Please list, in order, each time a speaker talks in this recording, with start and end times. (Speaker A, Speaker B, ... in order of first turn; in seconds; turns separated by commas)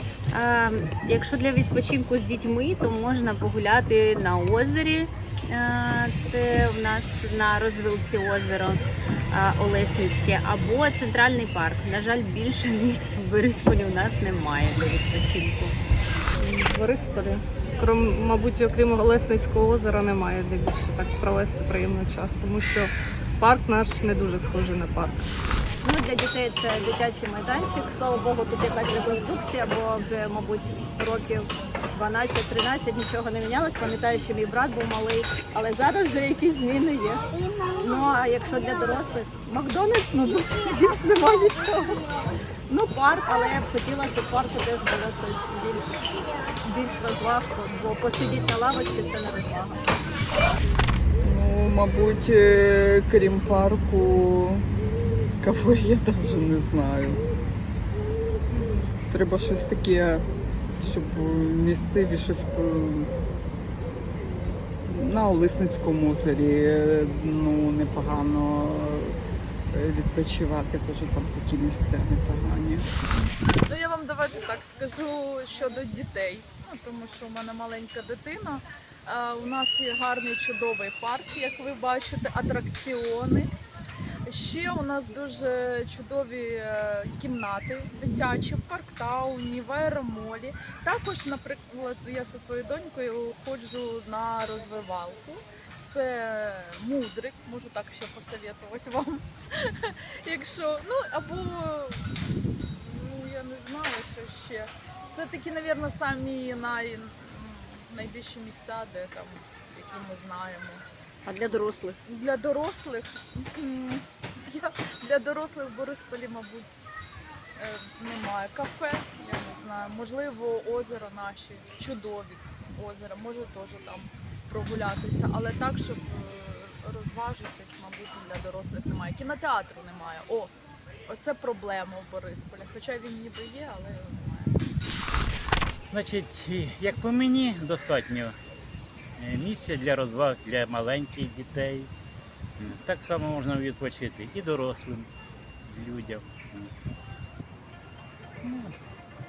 Speaker A: 0.3-15.8, Speaker B: 16.4-25.3, Speaker C: 25.8-37.2, Speaker C: 37.8-42.0, Speaker C: 42.7-46.0, Speaker C: 46.6-50.0, Speaker D: 51.2-54.7, Speaker D: 55.4-57.2, Speaker D: 59.1-60.2, Speaker D: 60.8-63.1, Speaker D: 64.9-69.2, Speaker D: 69.7-72.9, Speaker E: 73.7-83.5, Speaker E: 84.3-102.1, Speaker E: 102.7-110.8, Speaker A: 111.3-112.0, Speaker E: 112.1-116.7, Speaker E: 117.6-130.5, Speaker E: 131.1-134.6, Speaker F: 135.9-138.4, Speaker F: 139.2-141.9, Speaker F: 142.6-145.1, Speaker F: 145.7-146.7, Speaker F: 148.4-148.7